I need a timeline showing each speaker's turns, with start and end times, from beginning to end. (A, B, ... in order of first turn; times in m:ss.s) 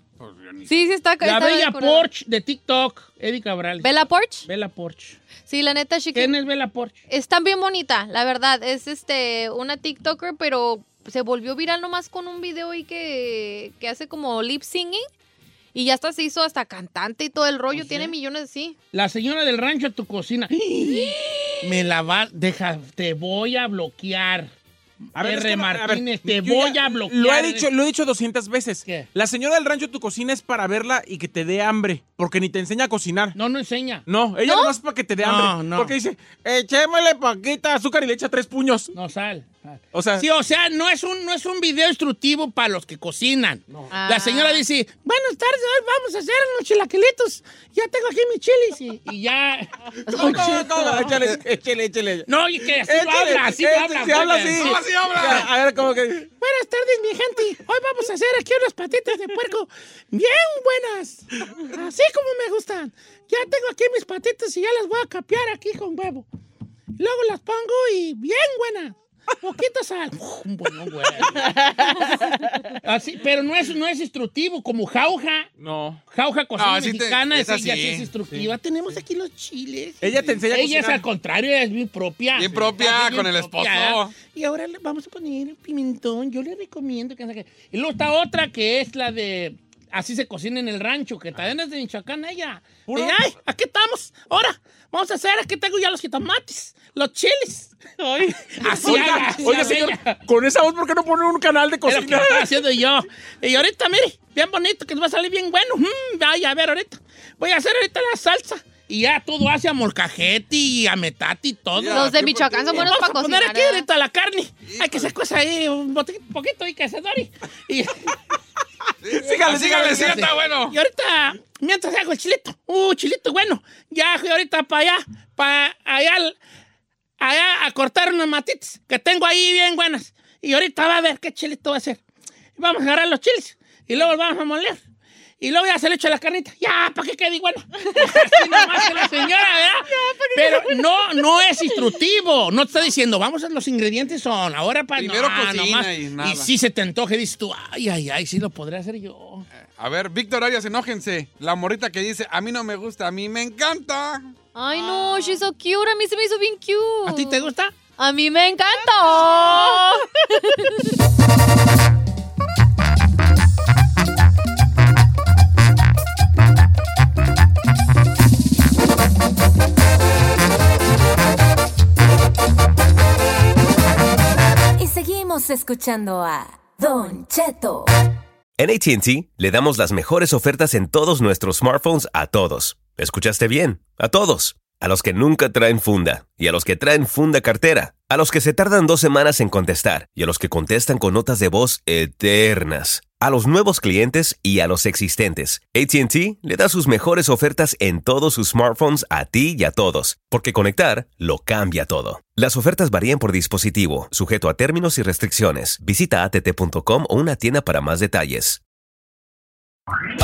0:00.2-0:00.8 A
0:00.7-0:02.1 B
0:01.2-0:03.9 C
0:03.8-0:04.5 B
0:04.4-0:05.2 C
0:05.5-0:06.4 B
0:06.1-0:07.0 C
0:07.1-0:15.1 B
0:15.7-0:18.8 B
0:17.7-0:18.1 C
0:18.9-0:24.5 C
0:25.2-0:27.7 C
0:25.2-0:33.4 D
0:33.4-0:34.1 C
0:34.1-0:38.9 D
0:34.5-0:34.8 B
0:35.2-0:36.0 C
0:38.9-0:51.1 C
0:39.9-0:40.3 D
0:43.9-0:44.6 B
0:50.1-0:51.1 B
0:50.1-0:52.3 D
0:52.3-0:55.4 C
0:52.8-0:56.3 D
0:54.6-0:55.5 A
0:56.4-1:06.3 C
1:07.0-1:11.4 C
1:12.8-1:15.5 C
1:15.6-1:16.0 D
1:16.1-1:37.8 C
1:16.6-1:18.1 A
1:20.0-1:21.0 D
1:22.4-1:24.2 A
1:32.9-1:33.2 D
1:38.0-1:39.3 E
1:38.6-1:40.2 C
1:38.8-1:42.5 D
1:41.9-1:52.2 C
1:51.8-1:52.9 A
1:51.9-1:53.9 B
1:52.7-1:58.2 C
1:54.7-1:55.1 A
1:59.0-2:00.8 A
1:59.1-2:00.3 D
1:59.4-2:06.4 C
2:07.2-2:12.0 C
2:12.6-2:14.8 C
2:15.4-2:29.5 C
2:17.9-2:19.4 E
2:19.9-2:20.7 E
2:25.0-2:26.5 A
2:29.8-2:34.3 A
2:34.6-2:37.5 B
2:34.7-2:35.4 E
2:37.1-2:37.8 C
2:38.0-2:40.8 B
2:38.7-2:40.0 E
2:54.8-2:57.9 F
2:58.6-3:28.6 G